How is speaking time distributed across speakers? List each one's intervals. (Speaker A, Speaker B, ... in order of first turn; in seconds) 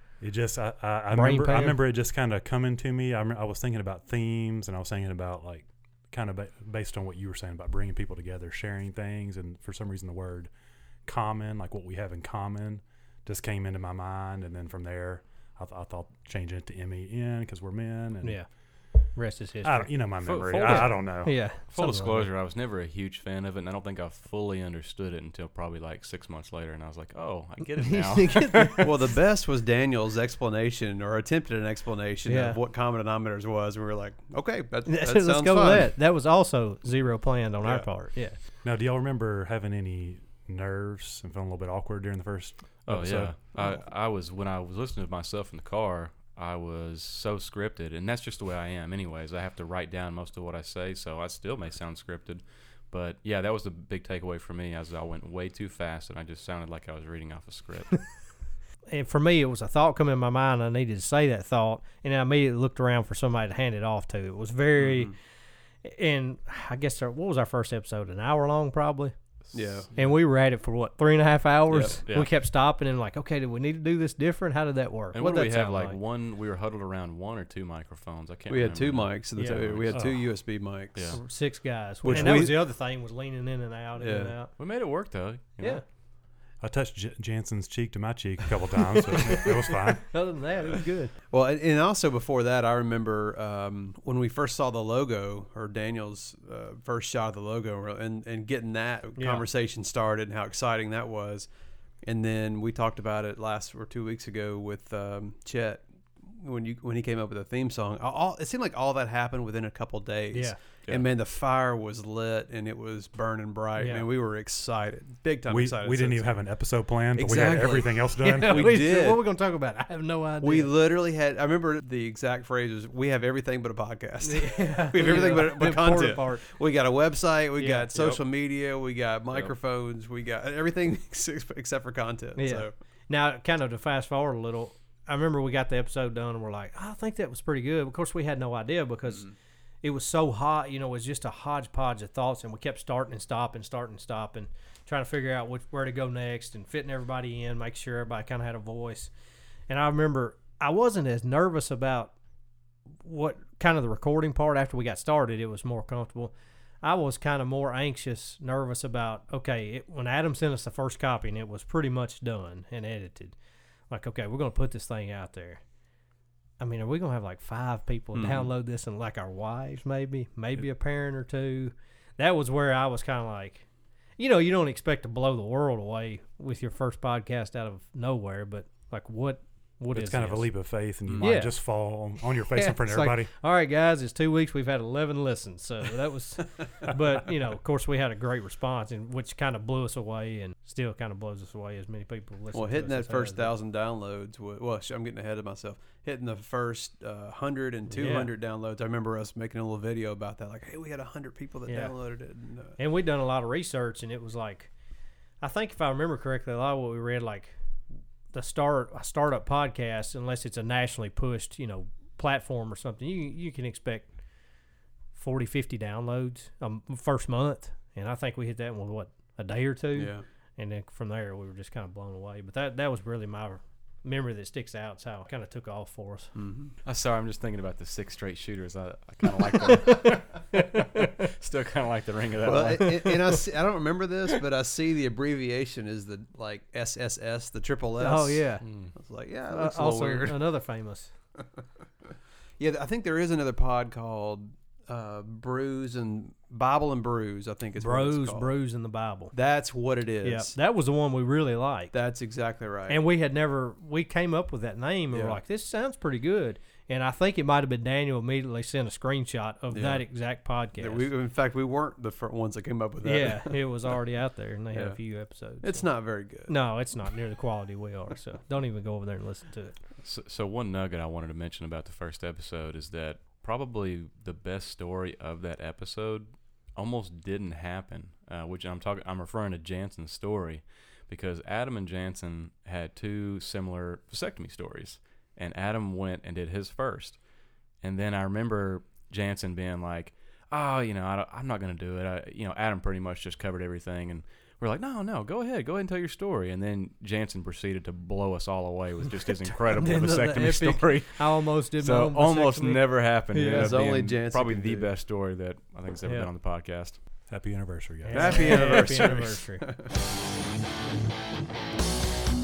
Speaker A: 0.2-10.5, 11.0-18.4, 19.6-21.4, 38.6-43.4, 79.9-80.2, 82.0-82.6, 86.6-90.1, 115.5-118.8, 179.9-183.3, 307.3-308.8
Speaker B: 1.1-1.8, 19.1-22.3, 27.8-28.9, 32.2-32.6, 34.9-38.4, 58.9-65.2, 65.8-69.1, 69.9-76.0, 79.4-79.6, 81.1-84.5, 90.1-91.1, 99.2-99.4, 110.3-110.6, 113.8-114.1, 117.3-120.7, 124.2-126.5, 127.6-127.9, 132.4-139.3, 139.8-149.1, 149.7-152.1, 153.0-163.3, 163.9-165.6, 166.6-173.7, 174.2-180.5, 181.2-181.6, 182.3-193.5, 197.9-198.3, 201.7-201.9, 202.8-204.7, 205.4-207.5, 208.3-214.1, 215.1-226.3, 229.8-230.9, 232.8-233.1, 238.0-238.6, 239.5-241.1, 247.8-249.3, 250.2-251.9, 252.9-261.1, 263.0-265.9, 266.5-269.8, 299.6-303.8, 308.0-309.6
Speaker C: 20.2-21.0, 21.7-28.8, 42.9-58.0, 71.8-72.3, 75.1-80.0, 80.9-81.2, 84.6-85.8, 127.9-128.2, 226.8-233.4, 238.6-238.9, 270.0-287.2, 287.8-307.0
Speaker D: 28.8-35.9, 37.6-37.9, 64.8-65.1, 69.5-69.9, 71.7-72.0, 78.5-81.2, 82.0-82.5, 84.0-84.3, 91.3-101.5, 102.0-116.4, 117.1-119.2, 120.4-132.7, 139.1-139.3, 168.1-168.5, 192.5-202.8, 219.9-220.2, 226.4-226.7, 232.4-240.4, 242.6-248.5, 249.3-250.5, 251.9-253.0, 255.1-255.4, 259.7-260.0, 260.8-263.7, 264.7-265.0, 265.6-266.5, 303.4-304.9, 308.1-309.9